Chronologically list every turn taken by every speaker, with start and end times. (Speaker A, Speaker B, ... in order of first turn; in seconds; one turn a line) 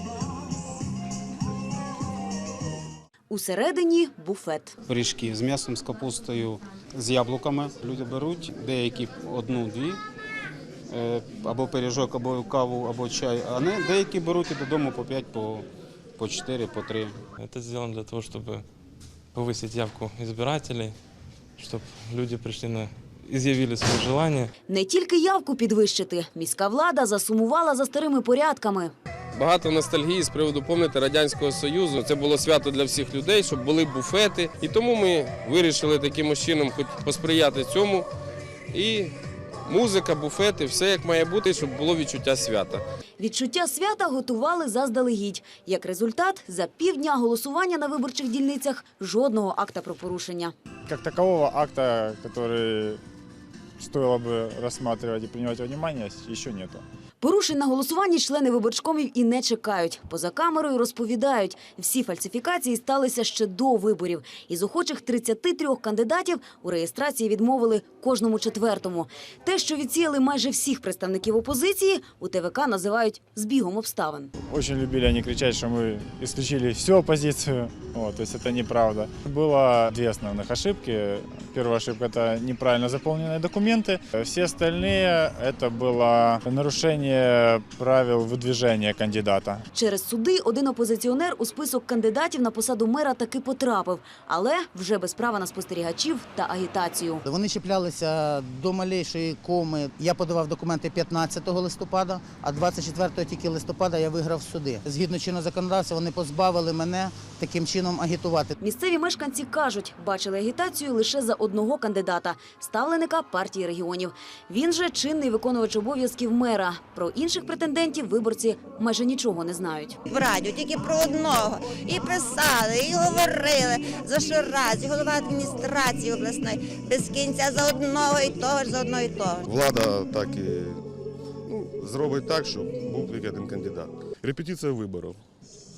Speaker A: 3.3-4.8
Speaker B: 4.9-10.0
Speaker B: 10.9-15.7
Speaker B: 16.2-17.2
Speaker C: 17.4-18.6
Speaker C: 19.3-20.9
Speaker C: 21.6-24.5
Speaker A: 24.7-28.9
Speaker D: 29.3-38.0
Speaker D: 38.7-39.1
Speaker D: 39.7-42.8
Speaker A: 43.2-50.5
Speaker E: 50.9-53.0
Speaker E: 53.8-56.8
Speaker A: 57.2-74.3
Speaker E: 74.5-89.6
Speaker A: 89.7-97.2
Speaker F: 97.2-108.5
Speaker A: 108.6-120.0
Speaker G: 120.1-129.5
Speaker H: 129.4-130.8
Speaker H: 131.5-135.2